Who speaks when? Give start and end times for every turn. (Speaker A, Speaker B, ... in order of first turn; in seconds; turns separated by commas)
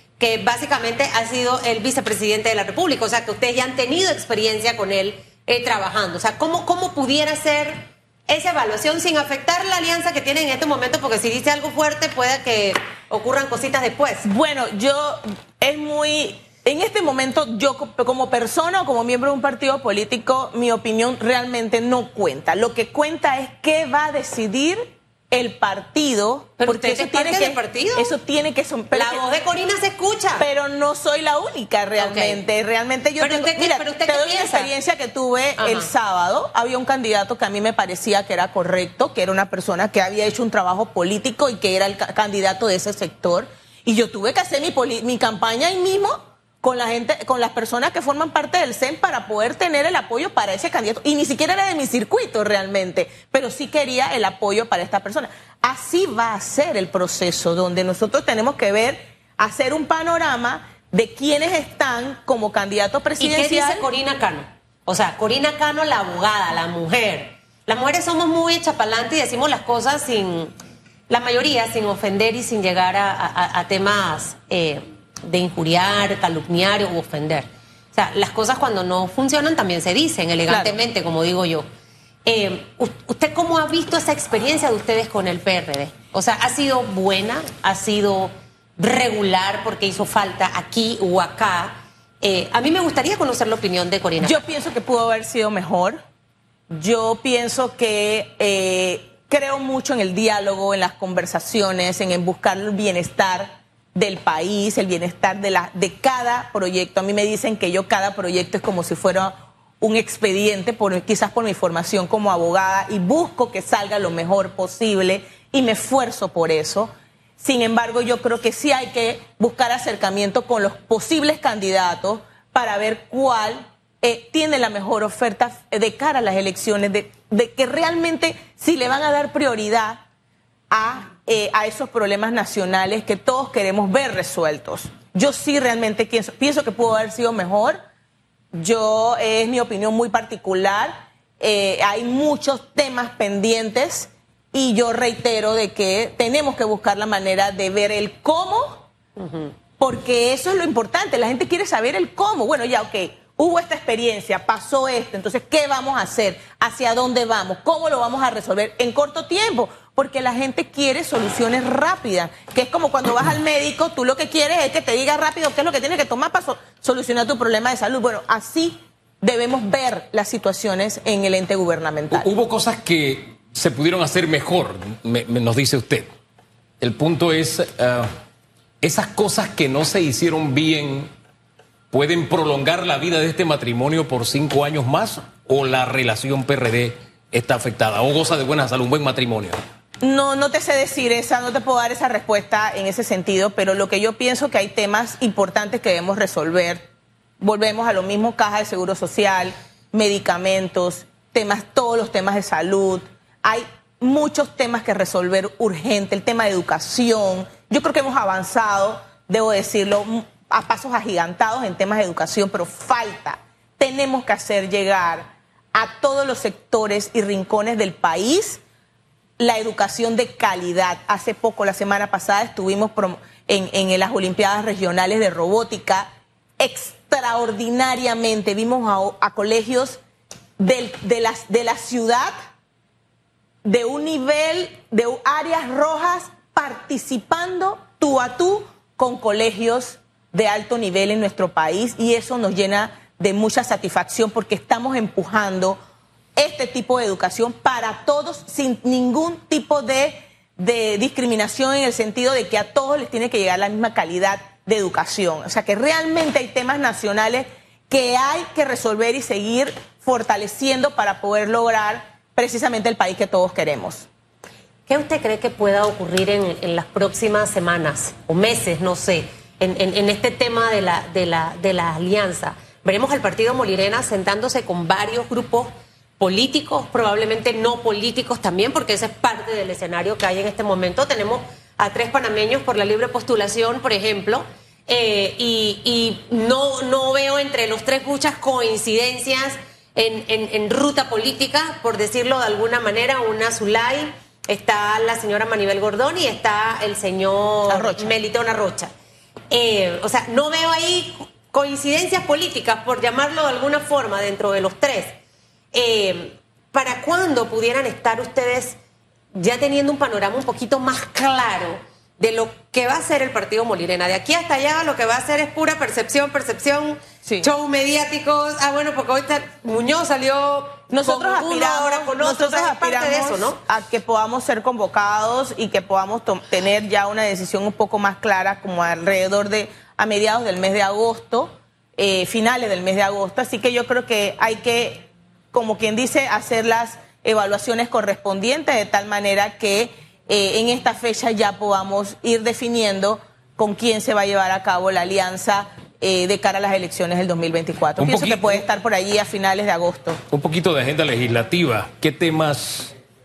Speaker A: 0.2-14.3, Speaker B: 14.2-29.2, Speaker A: 26.6-28.1, Speaker A: 28.9-30.5, Speaker B: 30.4-63.9, Speaker A: 32.0-32.5, Speaker A: 33.2-34.7, Speaker A: 35.6-35.9, Speaker A: 63.2-70.5, Speaker A: 71.1-81.7, Speaker B: 80.5-80.8, Speaker A: 82.2-94.4, Speaker B: 94.2-96.0, Speaker B: 96.7-130.0, Speaker B: 130.7-137.8, Speaker B: 138.5-148.9, Speaker A: 149.2-149.5, Speaker B: 149.8-172.3, Speaker C: 172.1-176.1, Speaker C: 176.8-178.1, Speaker C: 178.8-181.1, Speaker C: 181.9-189.6, Speaker B: 190.0-196.9, Speaker B: 197.4-218.6, Speaker B: 219.4-226.1, Speaker B: 226.6-230.0, Speaker B: 230.6-232.3, Speaker B: 233.6-245.8, Speaker B: 246.4-264.1, Speaker A: 264.9-298.9, Speaker B: 297.7-298.1, Speaker A: 299.5-305.1, Speaker A: 305.7-308.8, Speaker A: 309.3-323.6, Speaker B: 317.2-317.5, Speaker B: 320.9-350.2, Speaker C: 348.0-348.6, Speaker C: 350.3-352.9